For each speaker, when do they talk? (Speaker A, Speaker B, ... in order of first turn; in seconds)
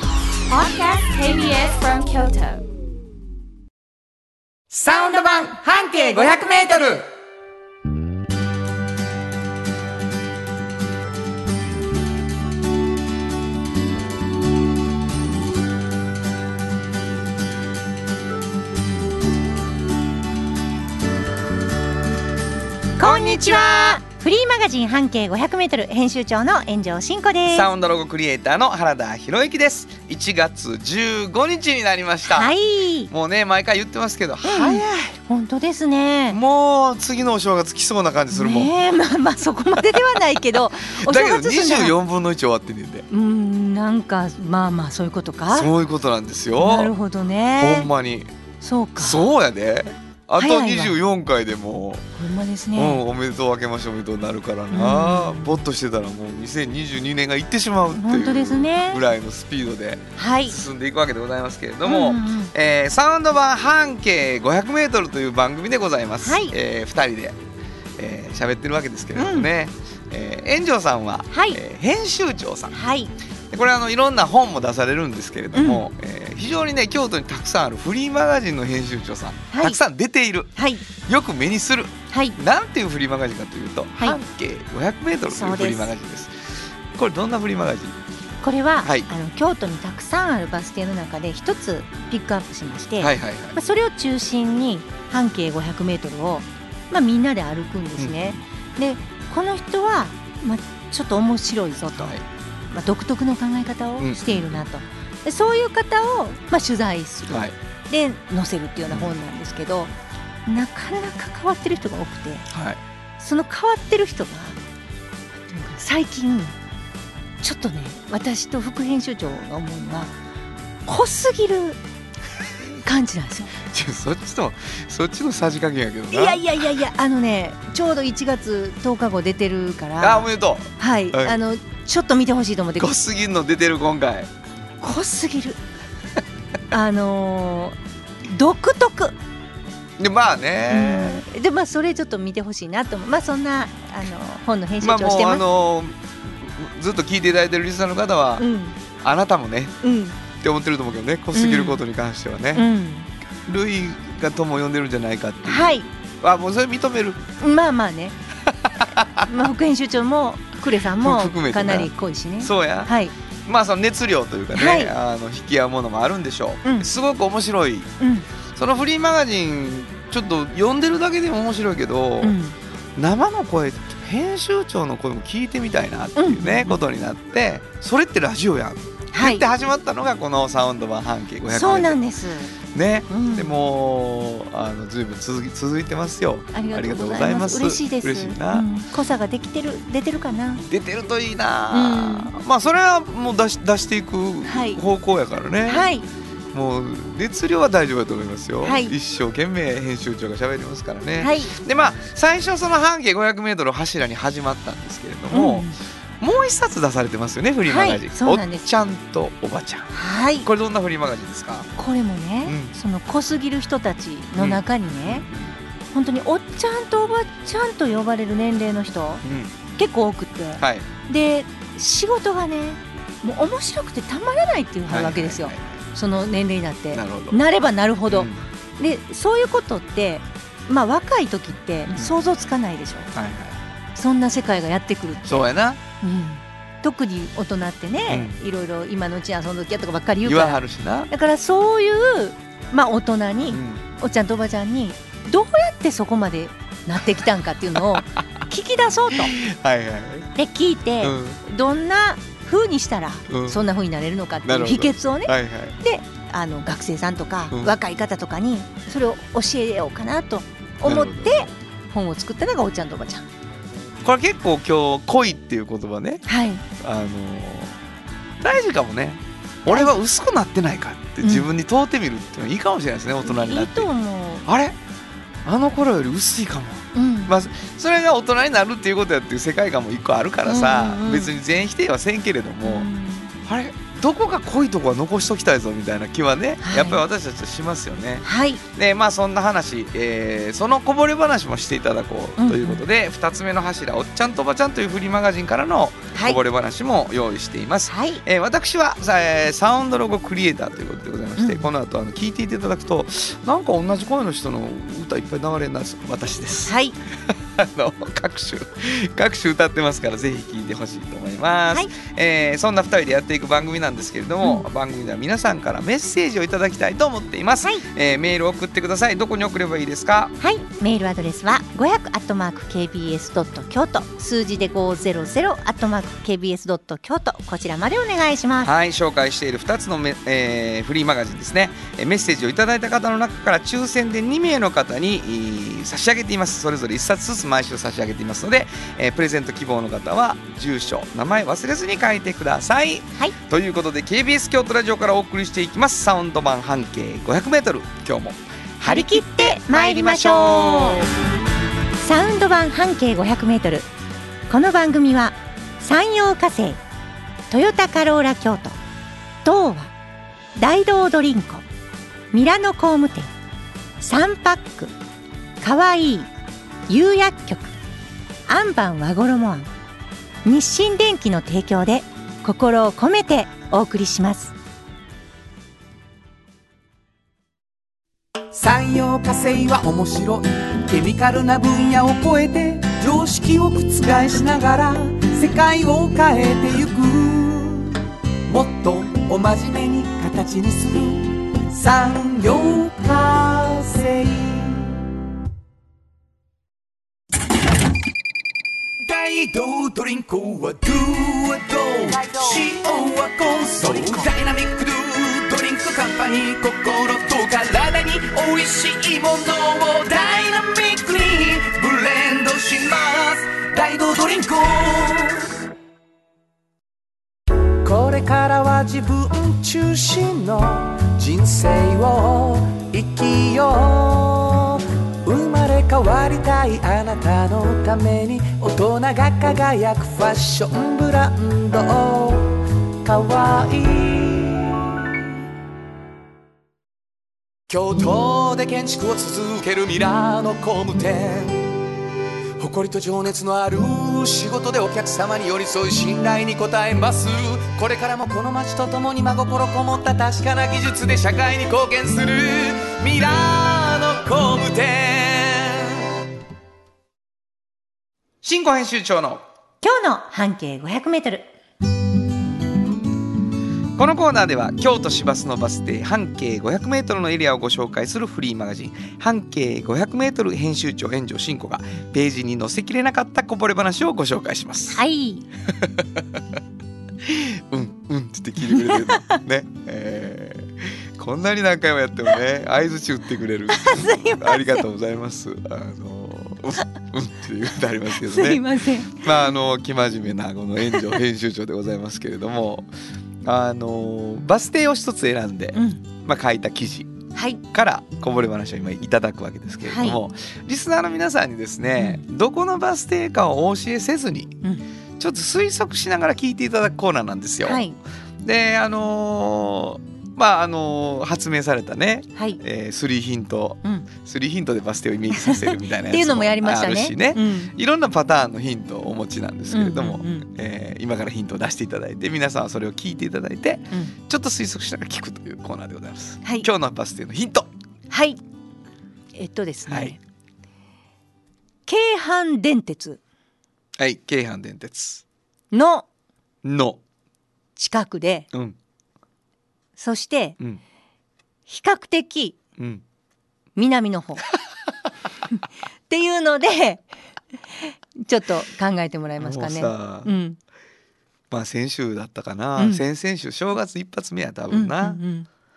Speaker A: 0.5-2.6
Speaker B: 4.7-7.0, 378.5-395.0, 399.0-415.6, 417.8-435.1, 437.7-441.7, 442.6-455.1
Speaker C: 23.0-27.7, 32.3-33.1, 34.4-36.4, 38.3-42.0, 43.1-45.7, 46.6-47.9, 48.6-49.3, 50.4-51.0, 52.2-53.0, 54.7-55.6, 57.9-59.0, 60.2-60.6, 61.8-62.5, 66.2-66.5, 69.2-69.5, 71.3-71.6, 72.7-73.1, 75.5-75.8, 79.5-79.8, 80.6-80.9, 82.1-82.4, 85.3-85.9, 88.4-102.2, 102.7-109.9, 110.5-112.5, 113.2-114.6, 115.5-116.6, 117.4-120.2, 120.9-121.8, 122.8-123.5, 126.1-132.9, 134.8-135.6, 136.7-139.2, 140.7-145.4, 148.4-148.8, 149.8-150.2, 151.3-151.8, 152.5-153.1, 155.4-155.9, 157.4-158.2, 159.2-163.2, 164.6-164.9, 168.0-168.3, 172.2-172.6, 176.2-176.8, 179.1-179.4, 181.5-182.5, 183.1-183.6, 186.5-190.6, 191.7-192.3, 194.5-194.8, 195.7-196.1, 198.6-198.9, 201.2-201.6, 205.3-205.8, 207.7-208.7, 209.9-210.5, 211.8-215.3, 215.9-219.2, 219.8-233.1, 233.9-235.5, 236.0-249.3, 250.4-263.3, 266.3-266.6, 271.2-271.5, 273.2-274.5, 276.9-277.3, 280.4-281.4, 282.6-283.3, 286.6-287.0, 288.2-288.6, 292.4-292.8, 296.1-296.4, 297.9-298.2, 301.4-301.7, 306.7-307.0, 320.4-328.7, 348.8-351.0, 352.0-353.9, 354.5-356.8, 357.5-358.8, 359.4-359.9, 360.6-361.6, 362.3-363.3, 364.0-364.9, 365.6-366.3, 366.9-367.7, 368.5-369.7, 370.4-374.5, 459.8-461.5, 474.9-475.4, 478.6-479.4, 483.7-484.9, 488.2-489.3, 495.7-496.0, 497.3-497.6, 499.9-500.2, 507.6-508.0, 512.4-512.6, 515.3-517.7, 519.7-520.5, 526.4-526.7, 528.1-528.4, 529.3-530.2, 531.9-533.2, 535.7-536.1, 537.8-538.5, 540.0-540.6, 541.7-542.6, 543.8-544.5, 546.1-547.0, 547.8-550.6, 552.8-553.0, 554.7-555.5
Speaker D: 23.0-24.0, 27.5-32.5, 33.1-35.0, 36.3-38.7, 39.8-43.1, 45.5-46.9, 47.6-48.3, 49.0-52.0, 52.8-67.4, 68.0-72.8, 73.5-88.0, 88.8-89.1, 93.0-93.6, 98.0-98.4, 102.0-102.2, 104.0-104.6, 107.3-107.5, 112.5-112.8, 123.7-126.5, 130.0-131.4, 132.8-134.3, 140.0-141.2, 144.8-148.5, 149.0-149.8, 150.3-152.7, 153.5-157.2, 158.5-159.5, 161.0-162.9, 163.5-167.9, 168.5-172.4, 173.0-182.0, 182.7-188.7, 190.7-195.9, 196.5-211.7, 212.4-212.7, 214.4-215.5, 219.2-219.5, 220.6-220.9, 224.9-225.8, 226.9-227.4, 228.1-228.4, 233.1-233.6, 235.3-235.8, 238.1-238.4, 240.2-241.1, 243.5-243.8, 249.1-250.3, 251.0-251.4, 253.3-253.6, 254.4-255.8, 260.8-261.5, 264.0-266.2, 266.8-267.8, 268.4-273.9, 274.4-274.8, 275.4-282.9, 283.4-306.7, 307.3-320.3, 328.6-351.1, 455.2-455.5, 458.4-459.4, 464.0-475.0, 475.7-476.4, 477.2-492.9, 493.4-497.1, 497.7-504.6, 505.2-507.8, 508.4-527.7, 529.9-530.1, 534.0-535.2, 536.6-537.0, 542.8-543.0, 549.4-550.3, 551.5-555.2